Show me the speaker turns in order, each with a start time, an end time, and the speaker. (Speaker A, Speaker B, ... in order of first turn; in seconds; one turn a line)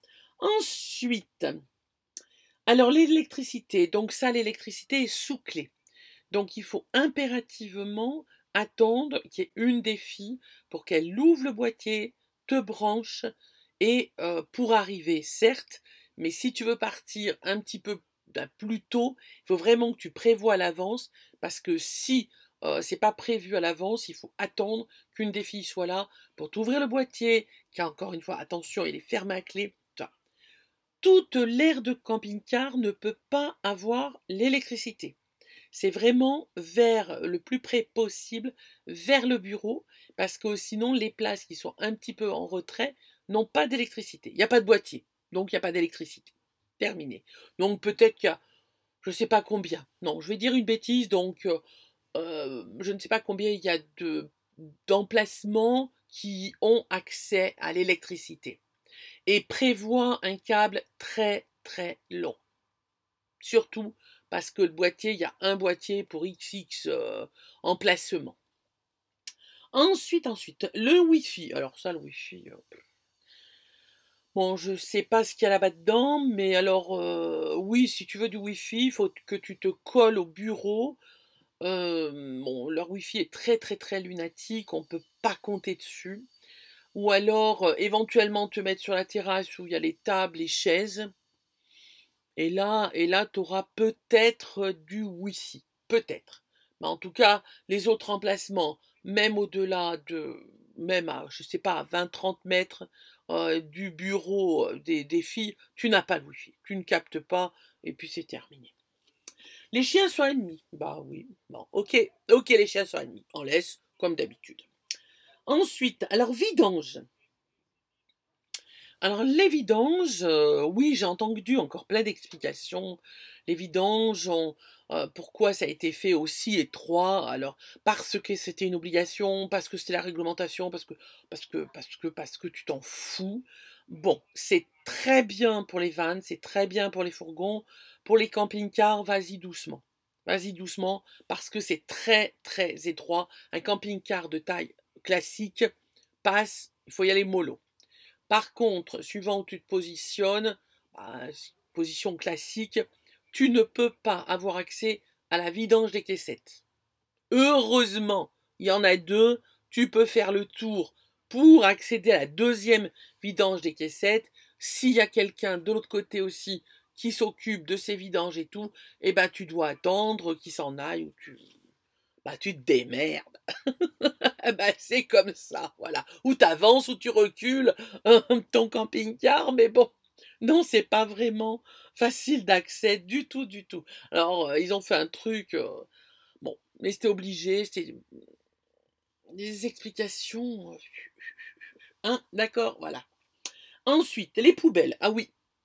Speaker A: 0.4-1.6
Speaker A: 2.7-5.7
Speaker A: 6.3-13.3
Speaker A: 13.8-30.1
Speaker A: 31.0-35.2
Speaker A: 35.7-48.4
Speaker A: 49.0-51.6
Speaker A: 52.1-58.6
Speaker A: 59.2-62.4
Speaker A: 63.4-68.4
Speaker A: 69.7-72.6
Speaker A: 74.3-81.0
Speaker A: 81.6-86.2
Speaker A: 86.9-91.1
Speaker A: 92.4-108.7
Speaker A: 109.7-114.7
Speaker A: 115.5-117.0
Speaker A: 119.0-145.7
Speaker A: 146.2-147.6
Speaker A: 148.3-156.6
Speaker A: 157.3-171.4
Speaker A: 172.2-173.2
Speaker A: 173.8-185.8
Speaker A: 186.4-188.0
Speaker A: 189.3-191.3
Speaker A: 192.0-193.0
Speaker A: 193.8-195.3